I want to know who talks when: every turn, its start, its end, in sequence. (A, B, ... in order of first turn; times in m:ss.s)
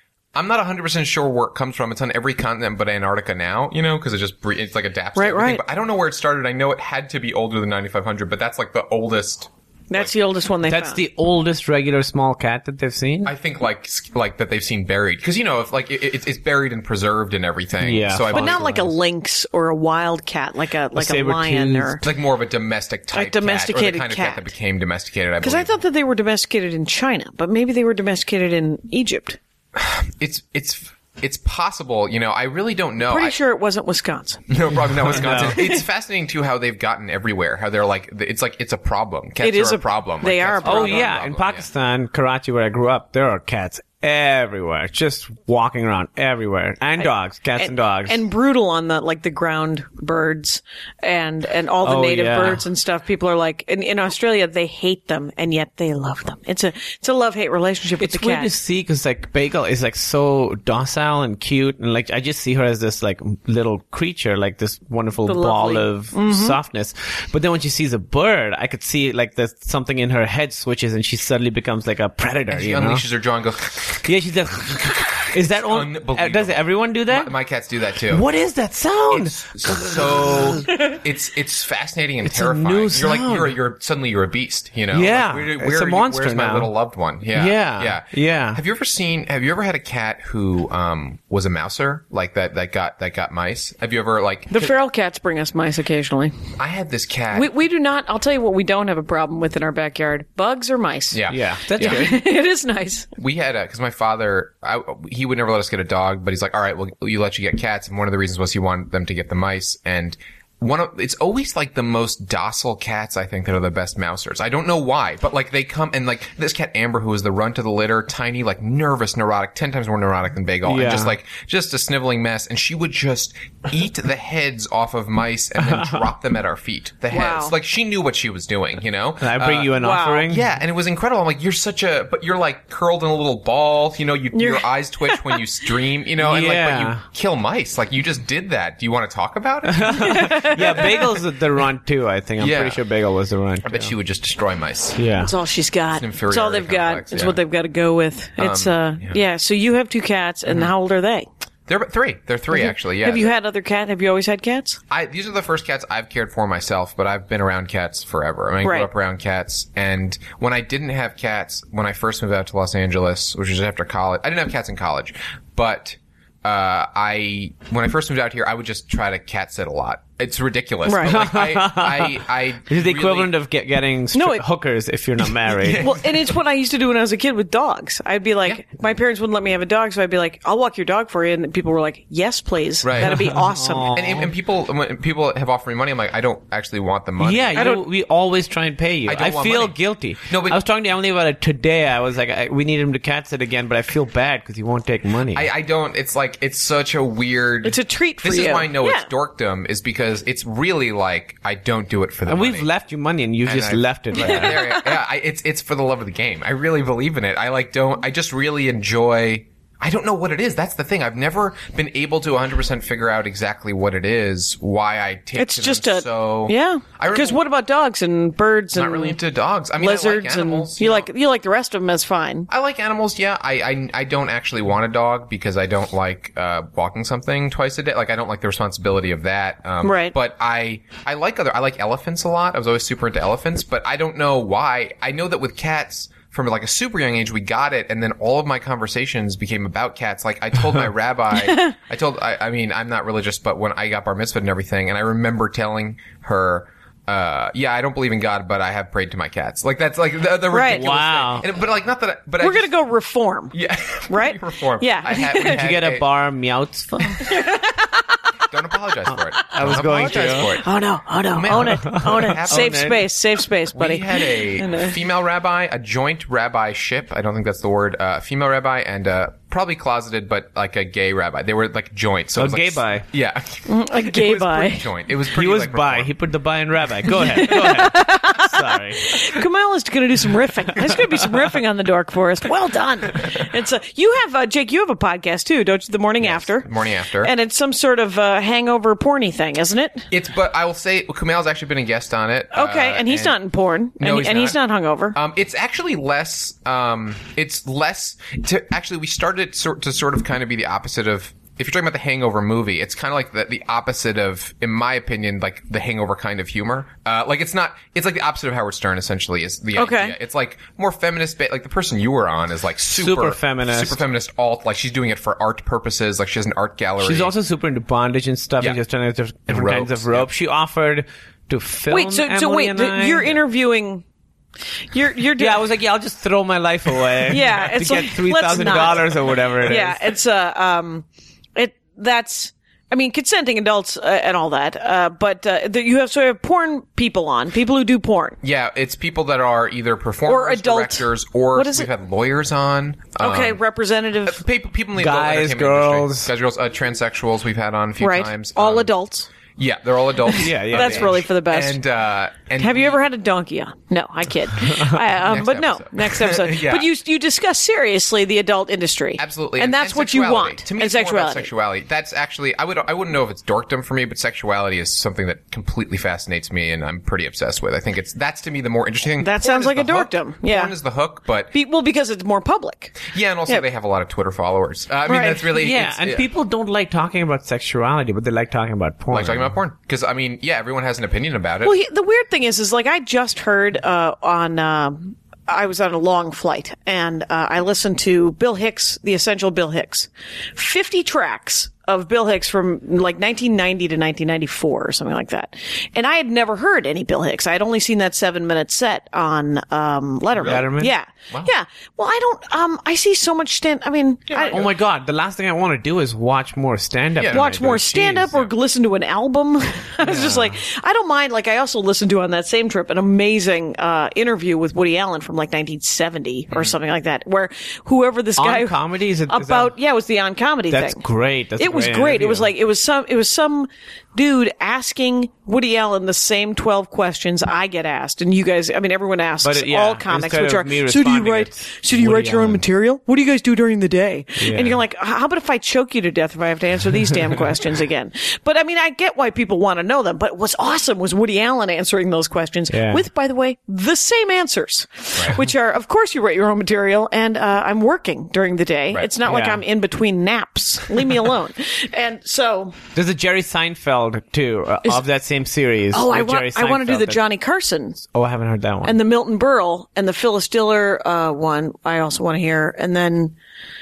0:00.4-0:10.1 A
0:05.2-0:05.6 B
0:09.9-0:11.0 B
0:10.7-0:13.3 C
0:13.2-0:18.9 A
0:17.8-0:18.6 C
0:18.3-0:22.0 B
0:20.9-0:22.0 C
0:22.0-0:25.8 A
0:23.1-0:24.5 B
0:25.4-0:29.4 B
0:29.8-0:33.4 A
0:33.0-0:34.4 B
0:34.5-0:41.7 A
0:35.1-0:35.7 C
0:35.4-0:35.8 B
0:39.4-0:41.1 B
0:40.6-0:48.2 C
0:47.0-0:58.5 B
0:51.8-0:52.7 C
0:58.0-1:13.0 C
1:05.3-1:06.6 B
1:12.5-1:14.0 A
1:13.9-1:17.3 C
1:15.6-1:18.3 A
1:18.1-1:20.7 C
1:19.1-1:34.7 A
1:22.2-1:23.6 C
1:24.9-1:26.7 C
1:27.3-1:28.6 C
1:34.5-1:36.3 B
1:36.6-1:37.5 A
1:37.3-1:41.2 B
1:41.1-1:42.2 A
1:41.3-1:42.2 C
1:41.8-1:43.1 B
1:43.2-2:20.7 A
2:00.6-2:01.2 C
2:05.6-2:06.1 C
2:07.1-2:07.5 B
2:09.2-2:10.5 C
2:09.8-2:10.3 B
2:14.3-2:15.4 B
2:16.2-2:17.0 C
2:19.6-2:23.9 C
2:19.9-2:21.0 B
2:22.4-2:22.8 A
2:23.6-2:25.0 A
2:25.0-2:25.3 C
2:25.2-2:31.3 B
2:26.0-2:27.4 A
2:28.4-2:29.2 A
2:30.5-2:30.7 A
2:31.7-2:33.3 A
2:32.5-2:34.8 B
2:34.9-2:53.4 A
2:38.6-2:38.9 B
2:50.9-2:51.2 B
2:51.0-2:56.0 C
2:54.1-2:54.4 B
2:55.6-2:56.2 A
2:55.8-3:04.0 B
3:02.8-3:07.7 A
3:03.0-3:04.3 C
3:07.2-3:15.5 C
3:07.6-3:07.8 B
3:09.0-3:10.6 A
3:15.3-3:22.7 A
3:17.6-3:19.1 B
3:22.3-3:24.7 C
3:23.4-3:37.4 A
3:24.2-3:24.8 B
3:35.4-3:39.2 B
3:38.8-3:41.1 A
3:39.8-3:42.5 B
3:42.5-4:12.7 A
3:49.8-3:50.2 B
4:01.3-4:01.8 B
4:10.5-4:10.9 B
4:10.6-4:11.5 C
4:12.4-4:13.5 B
4:13.5-4:16.1 A
4:14.1-4:15.6 B
4:15.4-4:17.2 C
4:17.2-4:18.2 B
4:18.5-4:20.7 A
4:19.4-4:20.6 C
4:19.7-4:25.0 B
4:21.3-4:23.0 A
4:21.8-4:23.0 C
4:23.7-4:36.2 A
4:32.4-4:33.1 C
4:33.7-4:34.9 B
4:35.3-4:39.2 C
4:37.2-4:46.7 B
4:46.2-4:47.3 A
4:47.2-4:50.1 B
4:50.1-4:53.4 A
4:52.5-4:55.2 B
4:54.0-4:54.6 A
4:55.1-5:17.3 A
5:09.8-5:10.2 B
5:12.9-5:14.0 C
5:17.0-5:23.4 C
5:19.5-5:20.3 A
5:21.9-5:24.0 B
5:24.9-5:25.6 B
5:25.4-5:30.0 C
5:27.3-5:38.4 B
5:38.4-5:43.6 A
5:40.3-5:41.9 B
5:43.2-5:44.4 B
5:44.3-5:48.9 A
5:45.0-5:46.3 C
5:48.0-5:49.3 B
5:49.6-5:53.0 A
5:50.3-5:51.8 B
5:50.4-5:51.2 C
5:52.6-6:01.5 B
5:55.1-5:56.9 A
5:59.2-6:11.5 A
6:09.2-6:10.7 B
6:11.5-6:13.6 B
6:13.0-6:16.3 A
6:15.1-6:15.5 B
6:15.5-6:19.5 C
6:19.1-6:21.8 A
6:21.6-6:44.6 B
6:40.4-6:40.9 C
6:44.3-6:44.7 A
6:44.4-6:48.3 C
6:47.2-6:48.5 A
6:47.3-7:01.0 B
6:50.0-6:50.5 C
6:58.4-6:59.7 C
7:00.7-7:02.5 C
7:01.6-7:32.8 B
7:09.4-7:12.6 C
7:14.4-7:14.8 C
7:22.7-7:23.0 C
7:29.2-7:29.6 C
7:33.0-7:37.2 C
7:35.9-7:38.0 B
7:38.0-7:39.0 C
7:38.8-7:43.4 B